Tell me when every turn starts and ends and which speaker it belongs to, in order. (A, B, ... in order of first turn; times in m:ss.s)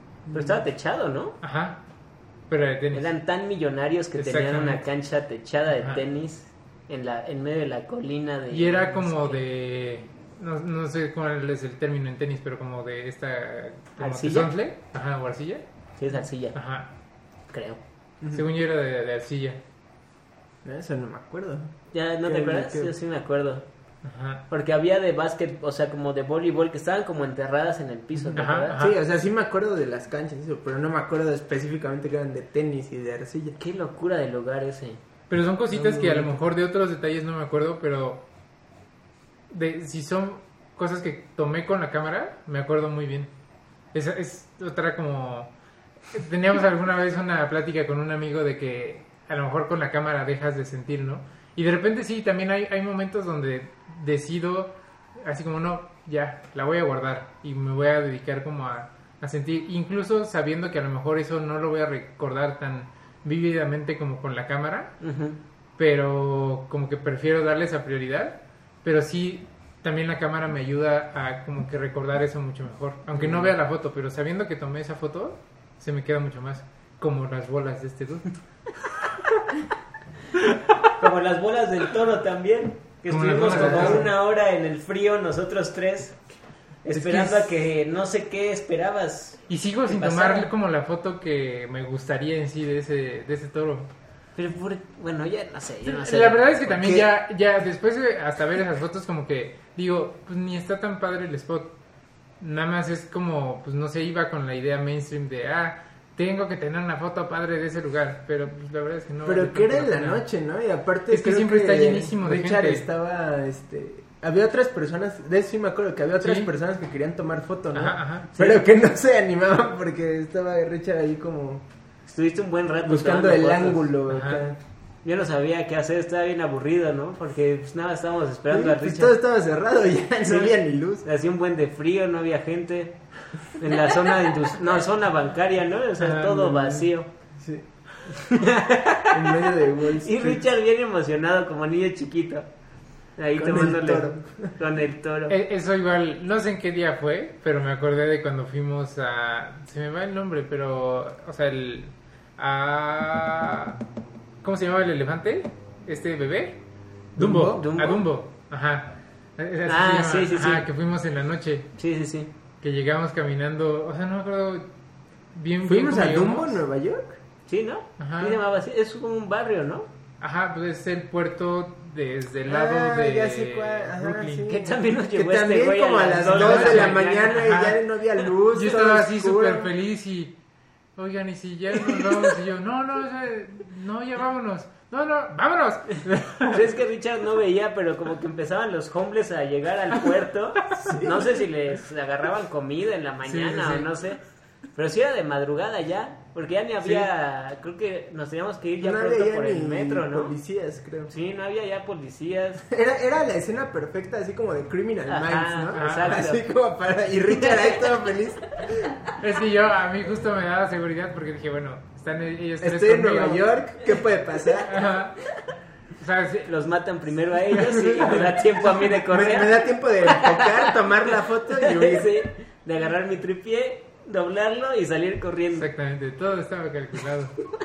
0:00.3-0:00.6 A
0:00.3-0:01.4 B
0:01.4-0:01.8 C
0:02.5-0:03.1 C
0:02.9-0:09.4 B
0:04.2-0:04.8 C
0:08.5-0:15.6 C
0:14.0-0:14.5 B
0:16.0-0:16.6 B
0:16.5-0:16.9 C
0:17.5-0:17.8 B
0:18.3-0:19.6 C
0:20.6-0:22.9 A
0:21.9-0:23.6 B
0:24.0-0:24.4 C
0:24.5-0:28.8 B
0:28.2-0:33.6 A
0:28.3-0:29.0 C
0:33.6-0:35.0 B
0:35.3-0:38.2 C
0:35.7-0:36.4 A
0:39.5-0:43.3 C
0:43.9-0:45.5 C
0:46.1-1:05.0 C
1:05.0-1:05.4 B
1:05.8-1:18.4 C
1:21.0-1:26.2 B
1:23.1-1:24.1 C
1:23.4-1:24.1 A
1:26.8-1:30.5 B
1:26.9-1:27.4 C
1:29.5-1:33.9 C
1:34.4-1:37.0 B
1:35.8-1:41.7 C
1:42.4-1:50.2 C
1:49.2-2:01.6 A
1:51.1-1:52.8 C
1:56.2-1:56.5 C
1:57.7-1:58.5 C
2:02.0-2:03.9 B
2:02.8-2:04.6 A
2:04.1-2:04.4 C
2:05.0-2:09.2 B
2:08.5-2:11.0 A
2:10.2-2:13.0 B
2:13.5-2:17.1 B
2:16.0-2:16.8 C
2:17.4-2:17.6 A
2:18.2-2:22.5 B
2:19.1-2:20.4 A
2:23.2-2:25.3 B
2:23.3-2:24.5 A
2:25.3-2:33.8 C
2:34.4-2:36.6 C
2:37.2-2:37.7 A
2:37.2-2:41.7 C
2:37.4-2:38.0 B
2:39.6-2:40.6 B
2:41.8-2:42.3 B
2:42.6-2:44.7 C
2:45.3-2:46.6 C
2:45.6-2:47.2 A
2:47.5-2:49.9 B
2:48.0-2:48.4 C
2:50.2-2:54.6 C
2:52.5-2:59.7 A
2:54.5-2:57.4 B
2:56.2-2:57.8 C
2:58.5-3:00.4 C
3:01.0-3:06.7 C
3:06.5-3:14.2 B
3:10.8-3:11.3 A
3:13.2-3:13.9 C
3:14.7-3:20.3 B
3:18.8-3:21.1 A
3:21.1-3:22.6 B
3:22.7-3:29.0 A
3:25.1-3:26.4 B
3:25.7-3:26.2 C
3:27.3-3:27.8 B
3:29.2-3:33.5 C
3:32.6-3:34.8 A
3:34.6-3:35.2 C
3:35.9-3:36.5 C
3:36.4-3:45.7 B
3:37.5-3:38.8 C
3:39.0-3:42.1 A
3:45.5-3:47.4 C